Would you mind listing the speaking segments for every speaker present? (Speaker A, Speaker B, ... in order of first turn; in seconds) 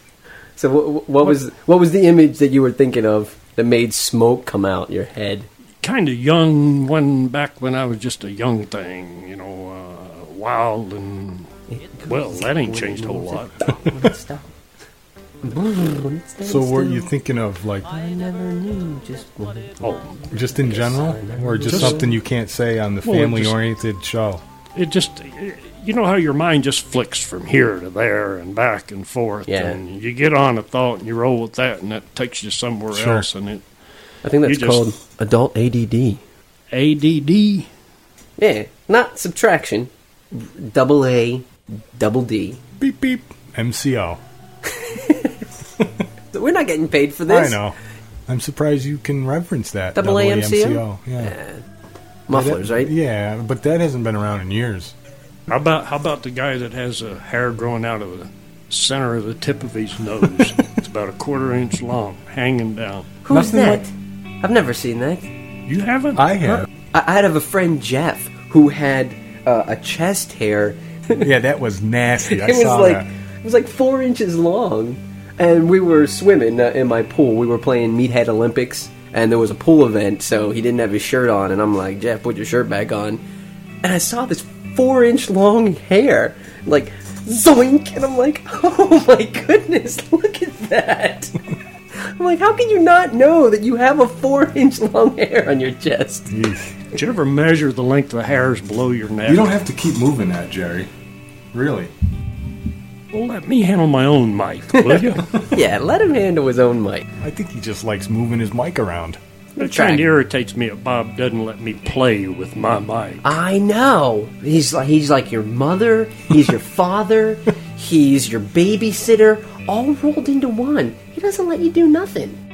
Speaker A: 0.6-5.5, 11.7-14.5, 15.4-17.1, 17.9-22.1, 29.5-29.8, 34.2-36.2, 38.4-42.6, 44.7-45.4, 46.3-47.6, 50.0-51.6, 52.3-52.9, 63.2-63.9, 64.4-65.3, 66.4-71.3, 72.3-83.2, 83.8-91.3, 92.0-96.3, 104.7-107.1, 109.6-110.0, 113.2-122.4
Speaker B: 5.8-11.5, 12.1-13.6, 19.8-20.1, 21.7-22.0, 23.0-23.6, 24.8-33.6, 34.4-34.9, 36.7-37.7, 55.5-63.1, 65.7-66.2, 96.9-99.6, 103.1-105.2, 109.6-113.4
Speaker C: 16.4-17.9, 20.3-24.4, 32.9-33.3, 42.8-44.2, 47.3-47.8, 48.3-51.4, 52.3-54.9, 63.3-63.9, 66.2-66.7, 71.2-73.1, 96.3-96.8, 99.3-100.9, 101.5-101.9, 107.2-109.2